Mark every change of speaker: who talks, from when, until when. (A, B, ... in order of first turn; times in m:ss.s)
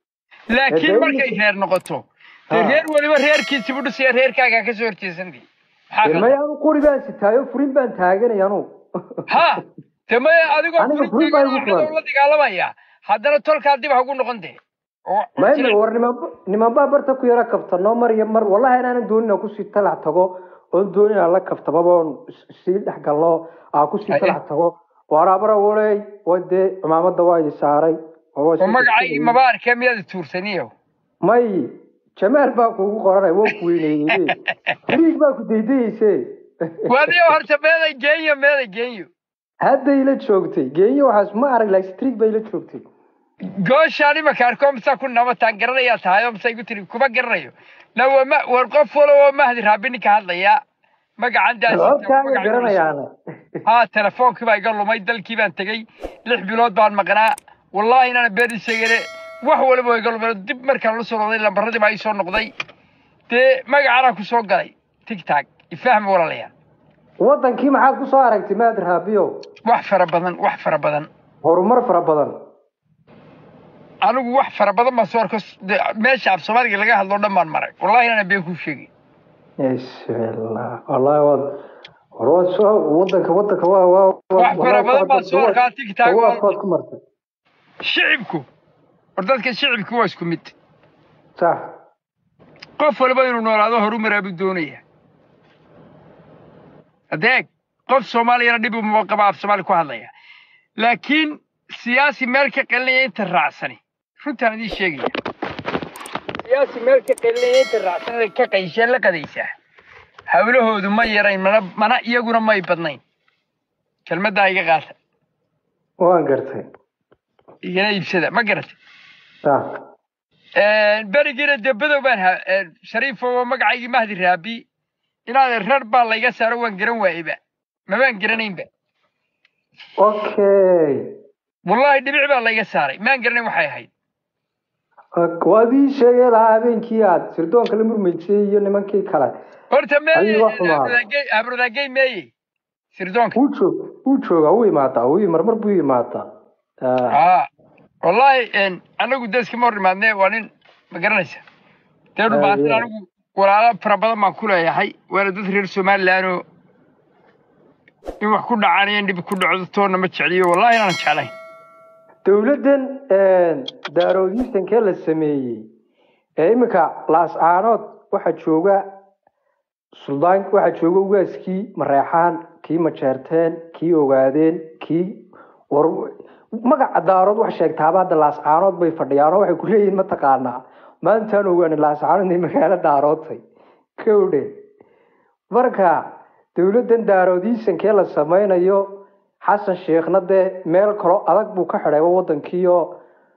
0:00.5-0:06.3 A
0:00.7-0:01.4 B
0:02.5-0:02.9 B
0:06.0-0:09.3 B
0:09.3-0:14.6 A
0:10.8-0:11.9 B
0:15.1-0:15.8 A
0:15.4-0:29.4 B
0:24.1-0:24.4 A
0:28.6-0:30.7 A
0:31.2-0:37.3 B
0:34.1-0:34.7 A
0:36.9-0:39.1 A
0:39.6-0:42.8 B
0:43.7-0:50.6 A
0:51.2-0:52.9 A
0:51.7-0:53.6 B
0:53.7-1:02.5 A
1:03.3-1:06.5 A
1:07.2-1:09.3 B
1:09.7-1:11.1 A
1:11.4-1:12.4 B
1:14.0-1:18.9 A
1:19.6-1:21.5 B
1:22.2-1:27.0 B
1:24.4-1:26.5 A
1:27.8-1:28.4 A
1:29.2-1:30.5 A
1:32.8-1:34.8 A
1:37.1-1:40.1 A
1:40.8-1:45.1 A
1:46.5-1:49.5 A
1:50.3-1:53.0 A
1:54.1-1:55.0 A
1:56.0-1:56.7 B
1:57.6-1:58.7 A
2:00.6-2:04.6 A
2:05.3-2:08.7 A
2:10.0-2:11.0 B
2:11.7-2:13.9 A
2:15.2-2:19.3 B
2:19.7-2:22.3 A
2:20.1-2:21.0 B
2:22.9-2:23.4 A
2:23.4-2:26.2 B
2:26.8-2:27.2 B
2:27.1-2:27.5 A
2:28.0-2:31.4 A
2:32.2-2:36.4 A
2:32.3-2:32.9 B
2:38.2-2:41.3 A
2:42.2-2:45.7 B
2:46.4-2:48.8 B
2:49.9-3:03.4 B
3:04.0-3:04.5 B
3:05.5-3:13.0 B